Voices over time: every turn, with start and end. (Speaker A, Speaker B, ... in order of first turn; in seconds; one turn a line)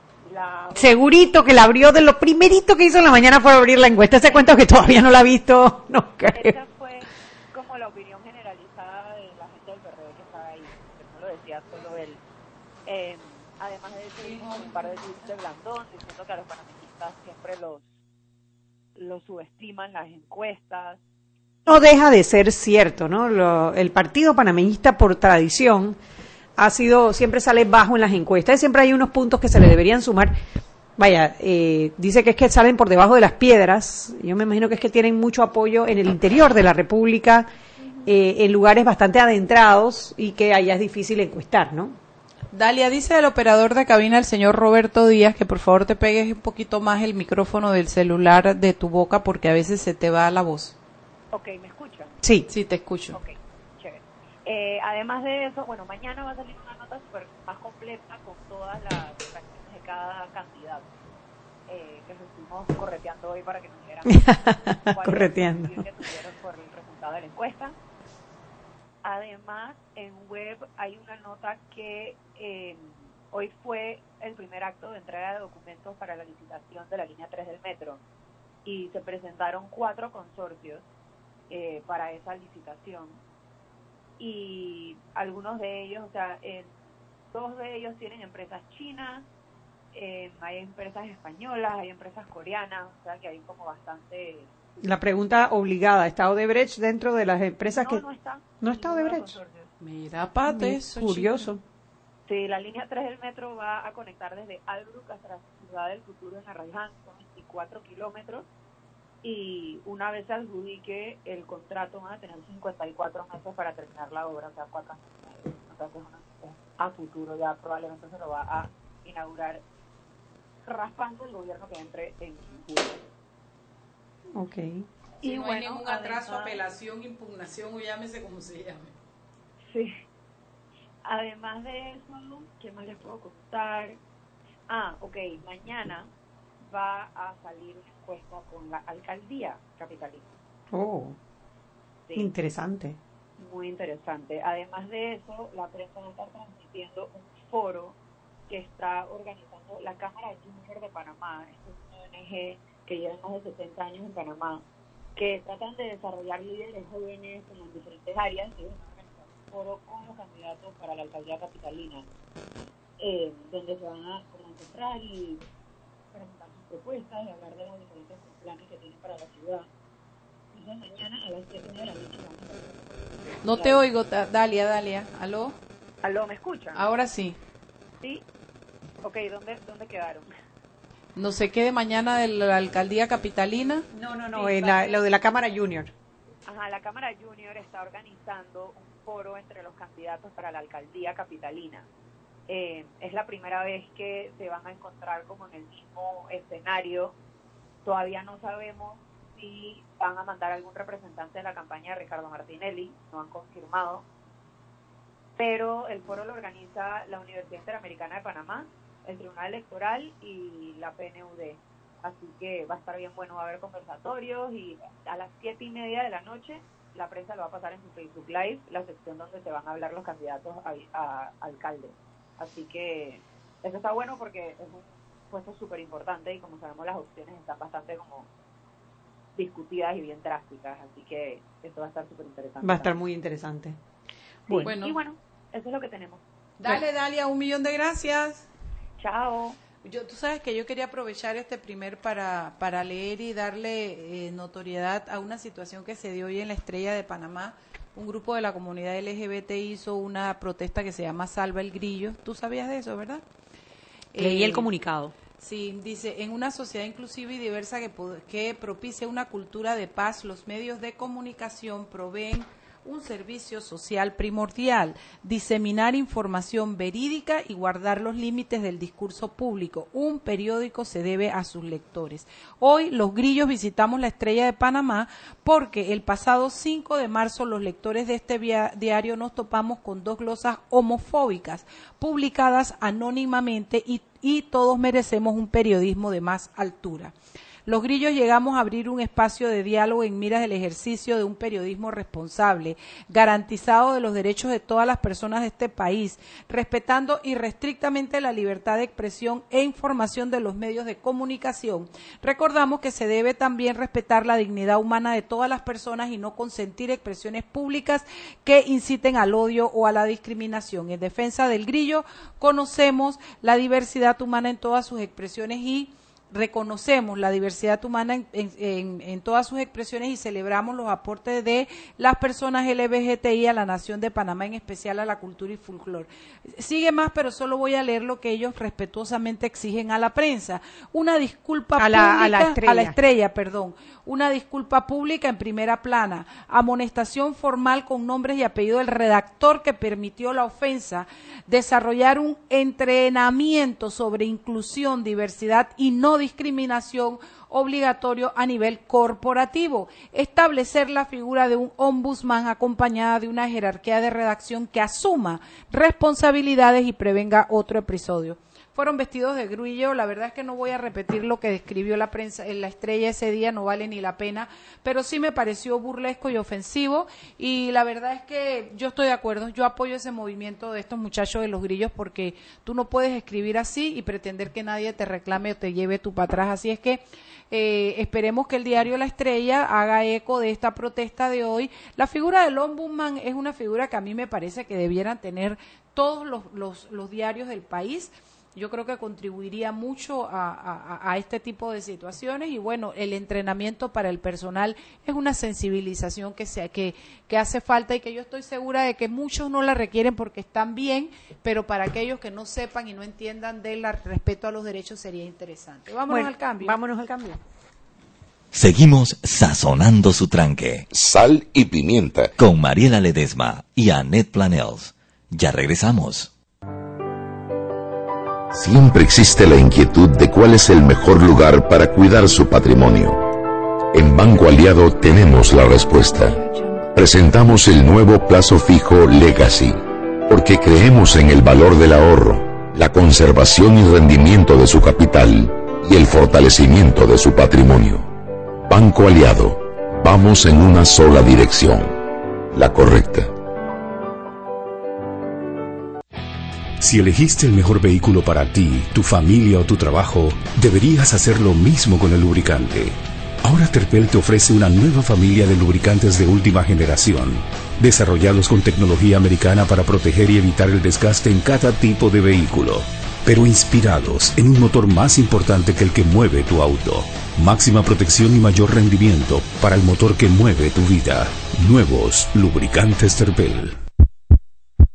Speaker A: 0.2-1.0
Speaker B: 0.8-6.5
Speaker A: 4.2-4.6
Speaker A: 6.3-12.2
Speaker A: 12.9-17.9
Speaker C: 14.3-14.9
Speaker A: 19.0-21.0
Speaker B: 21.7-26.0
Speaker B: 26.6-30.4
Speaker B: 31.0-37.5
Speaker B: 38.0-42.0
Speaker C: 42.5-50.7
Speaker A: 51.3-52.2
Speaker C: 52.5-53.2
Speaker A: 53.1-60.9
Speaker A: 61.7-64.3
Speaker B: 64.1-65.8
Speaker A: 64.9-67.8
Speaker A: 69.0-78.0
Speaker A: 78.7-80.9
Speaker A: 81.5-83.2
Speaker A: 84.2-86.7
Speaker A: 87.3-89.3
Speaker A: 89.9-94.5
Speaker B: 94.8-98.0
Speaker A: 97.6-99.7
Speaker B: 98.6-99.3
Speaker C: 99.8-101.5
Speaker B: 100.5-101.6
Speaker A: 102.3-108.5
Speaker A: 109.2-119.6
Speaker A: 120.7-123.1
Speaker B: 124.3-124.9
Speaker A: 125.2-126.6
Speaker C: 125.2-128.9
Speaker A: 129.7-129.9
Speaker A: 131.1-134.0
Speaker A: 134.7-136.1
Speaker A: 136.6-140.3
Speaker B: 140.7-141.2
Speaker A: 142.1-142.3
Speaker B: 142.2-143.0
Speaker A: 143.4-148.0
Speaker A: 148.5-154.6
Speaker A: 155.2-162.1
Speaker A: 163.0-165.4
Speaker A: 166.1-169.7
Speaker A: 170.5-173.8
Speaker C: 173.4-175.5
Speaker A: 176.0-176.9
Speaker C: 176.8-177.4
Speaker A: 179.0-180.3
Speaker C: 181.2-183.8
Speaker B: 183.9-185.9
Speaker A: 184.3-185.0
Speaker A: 186.5-191.8
Speaker A: 192.5-197.2
Speaker A: 197.8-204.1
Speaker A: 205.4-228.3
Speaker A: 229.4-233.0
Speaker B: 232.6-233.8
Speaker A: 234.5-236.2
Speaker C: 234.6-235.0
Speaker C: 236.6-238.4
Speaker A: 239.0-239.6
Speaker C: 239.8-253.2
Speaker C: 254.1-254.7
Speaker B: 254.2-255.1
Speaker C: 255.4-287.1
Speaker C: 287.7-406.8
Speaker B: 331.8-332.9
Speaker B: 406.1-407.4
Speaker D: 408.5-410.9
Speaker E: 410.9-412.3
Speaker D: 412.4-416.3
Speaker E: 418.5-423.3
Speaker E: 423.9-438.1
Speaker E: 438.6-443.3
Speaker F: 446.8-473.8